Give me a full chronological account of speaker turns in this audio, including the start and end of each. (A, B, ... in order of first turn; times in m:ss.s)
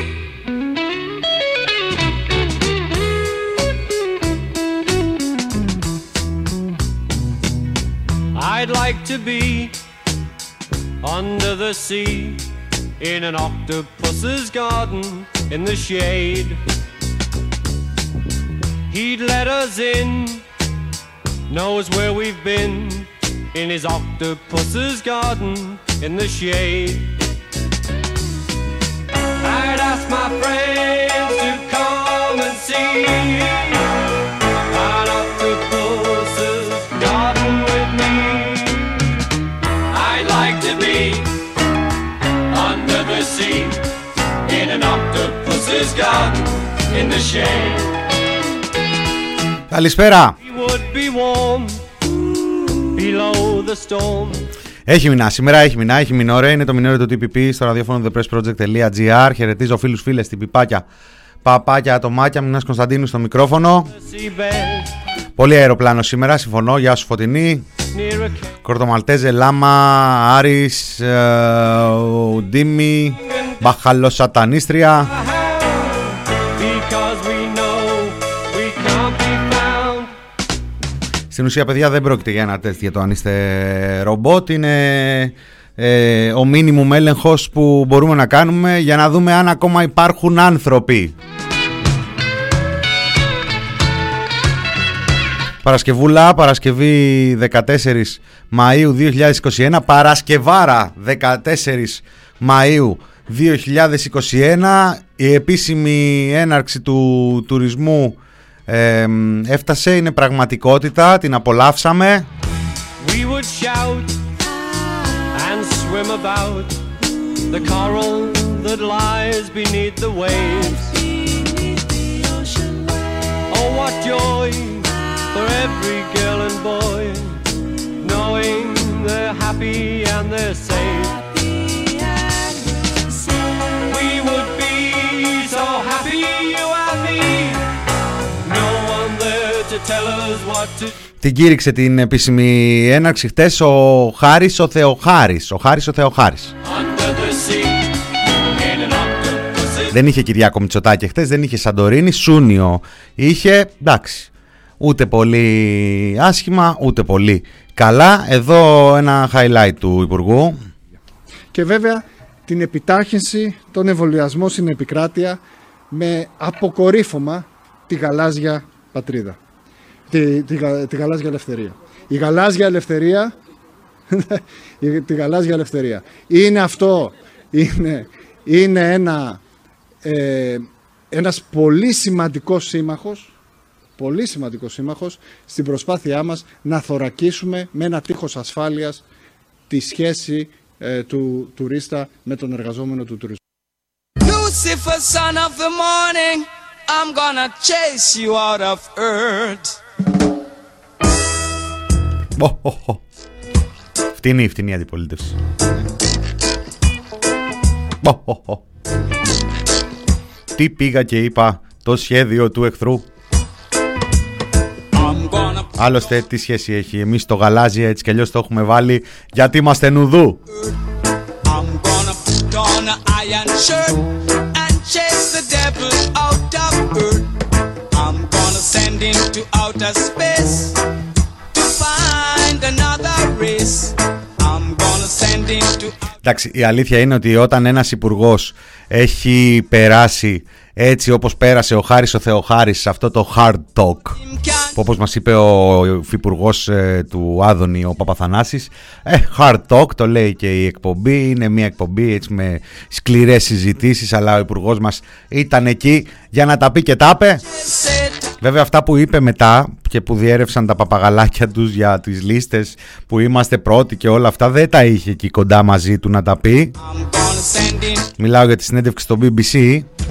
0:08.3-0:09.8 A
0:11.0-0:12.4 A
0:13.0-0:16.6 A
0:18.9-0:20.4 A
0:21.5-0:27.1 A
0:29.4-0:33.9 A
0:34.7-0:38.9 A
0:39.9-0:41.3 A
0:42.5-0:43.8 A
0:44.4-0:47.9 A
0:49.7-0:50.4 B
0:50.4-0:51.9 A
0:52.9-0:54.5 A
0:54.8-1:00.8 B
1:01.4-1:03.9 B
1:03.9-1:04.9 A
1:05.4-1:07.6 B
1:07.9-1:08.5 A
1:08.6-1:15.1 B
1:15.2-1:15.9 A
1:16.6-1:20.1 A
1:21.3-1:31.1 B
1:35.6-1:52.3 B
1:53.0-1:54.2 A
1:55.3-1:56.8 A
1:57.5-2:00.9 A
2:03.5-2:07.4 A
2:08.0-2:11.2 A
2:13.9-2:17.6 A
2:18.4-2:20.9 A
2:21.2-2:26.5 B
2:26.7-2:27.8 A
2:28.5-2:29.9 A
2:29.9-2:40.6 B
2:41.5-2:45.4 C
2:45.9-2:49.4 C
2:50.1-2:53.3 C
2:54.1-2:59.4 C
3:00.0-3:03.3 C
3:04.0-3:09.0 C
3:09.7-3:13.4 C
3:14.2-3:19.8 D
3:22.4-3:23.0 B
3:24.2-3:25.4 B
3:28.0-3:28.6 B
3:30.5-3:33.0 B
3:35.0-3:35.6 D
3:35.8-3:40.4 B
3:41.5-3:44.0 D
3:44.5-3:47.3 D
3:47.9-3:50.7 D
3:51.6-3:56.0 D
3:56.2-4:04.2 B
4:04.3-4:04.7 D
4:04.7-4:17.4 B
4:18.4-4:26.7 B
4:26.8-4:28.0 D
4:28.2-4:29.9 B